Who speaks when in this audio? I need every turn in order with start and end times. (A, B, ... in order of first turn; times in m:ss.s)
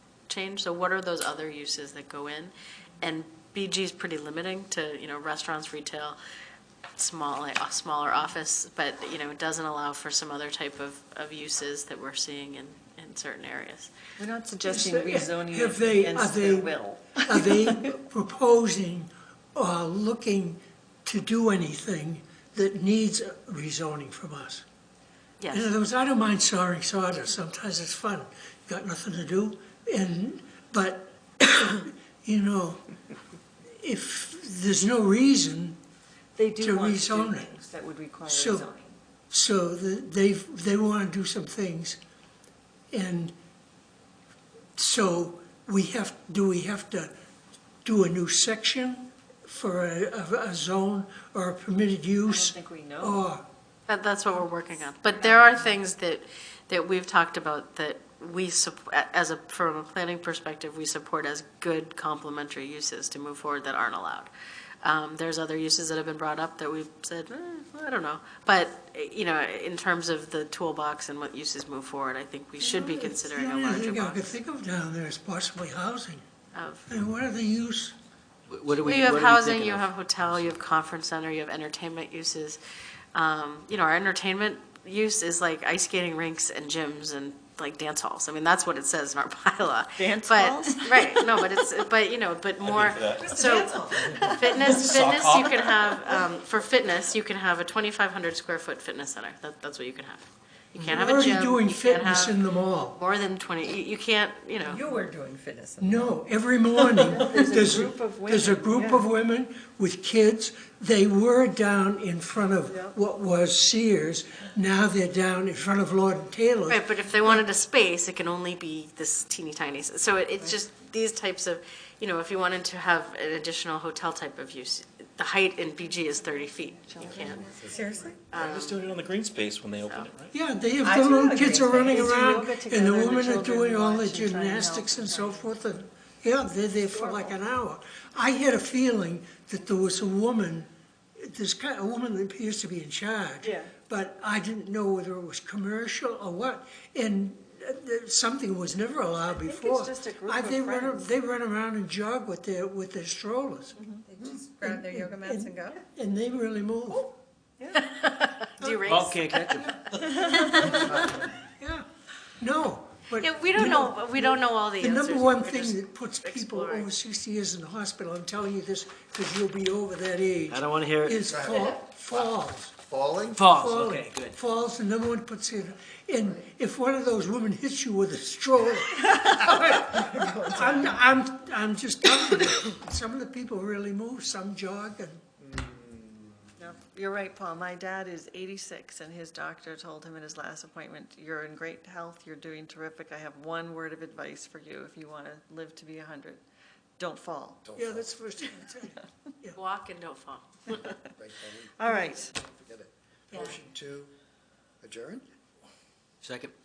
0:00.3-0:06.2 A
0:07.0-0:13.9 A
0:14.2-0:17.9 B
0:14.7-0:16.7 C
0:17.2-0:24.6 C
0:25.4-0:25.7 A
0:25.5-0:32.8 C
0:33.8-0:35.8 C
0:36.4-0:39.0 B
0:36.6-0:37.4 C
0:38.3-0:38.6 C
0:39.3-0:42.0 C
0:42.9-0:43.3 C
0:44.8-0:47.1 C
0:47.8-0:53.4 C
0:52.2-0:53.2 B
0:53.9-1:04.3 A
0:55.3-0:55.6 B
1:04.8-1:14.3 A
1:12.6-1:16.2 C
1:16.5-1:16.9 A
1:16.9-1:17.9 C
1:18.5-1:19.8 D
1:18.8-1:22.6 A
1:23.1-1:42.4 A
1:30.0-1:31.4 B
1:32.6-1:33.4 E
1:33.2-1:35.5 B
1:34.2-1:35.7 E
1:40.8-1:43.0 C
1:42.9-1:44.8 A
1:44.7-1:46.1 F
1:44.7-1:45.0 B
1:45.8-1:57.4 C
1:46.9-1:49.1 B
1:52.7-1:52.9 B
1:56.7-2:07.5 A
2:06.9-2:08.1 B
2:07.6-2:08.2 F
2:08.3-2:08.9 A
2:08.3-2:10.3 E
2:09.8-2:10.1 A
2:10.3-2:33.8 C
2:10.8-2:15.5 B
2:16.8-2:17.4 B
2:23.4-2:23.7 B
2:29.3-2:31.1 B
2:33.8-2:34.0 B
2:34.1-2:35.8 F
2:34.4-2:37.1 C
2:37.6-2:37.9 B
2:37.8-2:41.0 A
2:38.6-2:39.0 C
2:38.9-2:39.9 D
2:40.0-2:41.2 B
2:40.6-2:41.8 C
2:42.4-2:52.8 C
2:43.2-2:46.9 A
2:50.5-2:51.2 D
2:51.3-2:53.4 G
2:53.3-2:54.4 D
2:53.5-3:05.2 C
3:05.5-3:06.3 G
3:06.6-3:16.4 B
3:17.0-3:17.6 B
3:17.6-3:18.1 G
3:17.7-3:19.6 C
3:19.5-3:20.9 A
3:20.7-3:20.9 B
3:21.2-3:24.1 G
3:21.8-3:22.3 B
3:24.8-3:25.2 G
3:26.2-3:26.5 D